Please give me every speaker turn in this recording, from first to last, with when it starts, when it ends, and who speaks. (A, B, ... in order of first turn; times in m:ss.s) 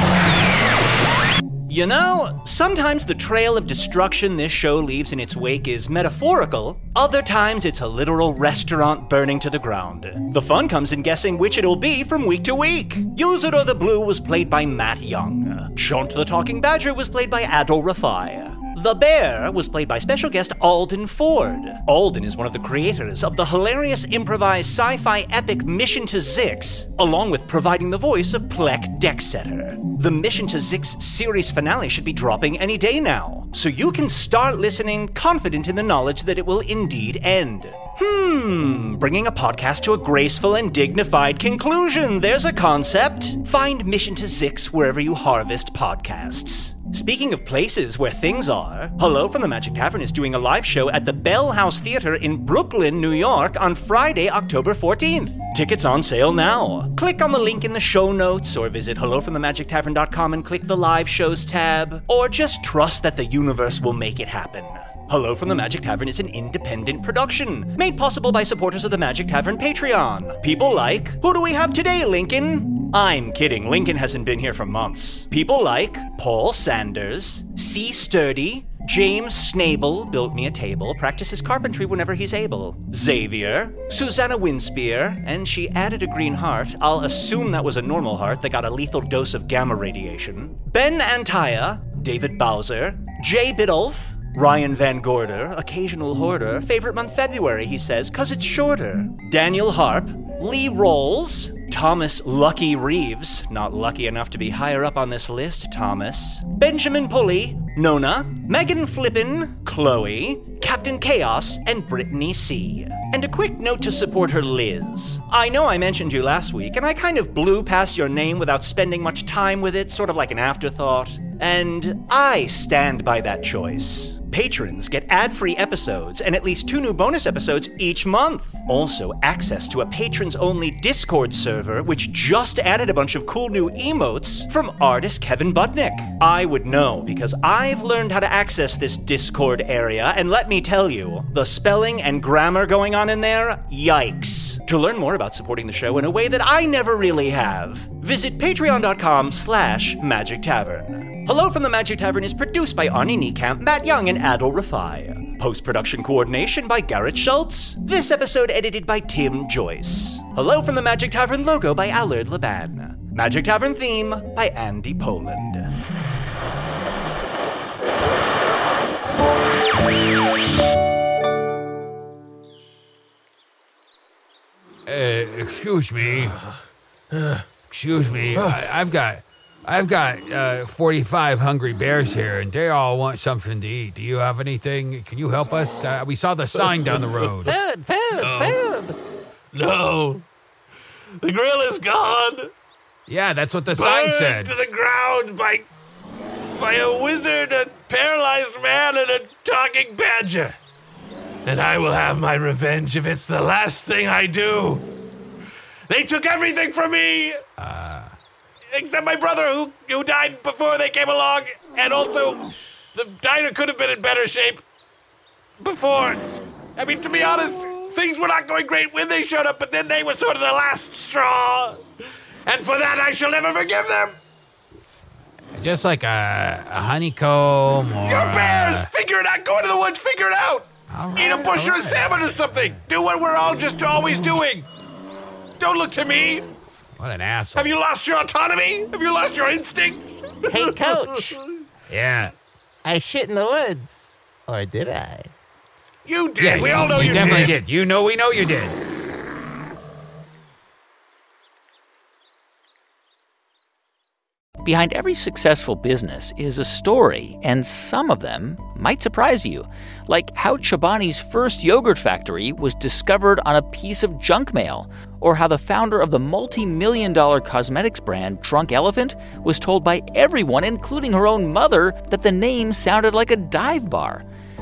0:01.7-2:45.8 A
2:54.9-2:56.4 B
2:56.0-2:56.5 C
2:57.1-2:57.4 C
2:57.7-3:07.6 B
3:07.5-3:08.8 D
3:08.2-3:08.7 C
3:09.5-3:10.2 C
3:11.2-3:12.5 C
3:13.1-3:14.5 B
3:13.7-3:15.7 C
3:16.6-3:20.6 C
3:21.5-3:24.9 C
3:25.9-3:27.4 C
3:27.6-3:28.1 B
3:28.7-3:34.6 C
3:35.6-3:36.2 C
3:36.8-3:41.8 C
3:42.5-3:44.2 C
3:45.6-3:48.9 B
3:48.1-3:54.7 C
3:50.9-3:52.8 B
3:55.6-3:56.5 C
3:57.0-3:57.8 B
3:57.6-4:01.5 C
4:00.5-4:01.4 D
4:01.9-4:02.3 B
4:02.8-4:05.3 D
4:06.0-4:07.6 C
4:06.4-4:08.8 B
4:14.6-4:34.2 E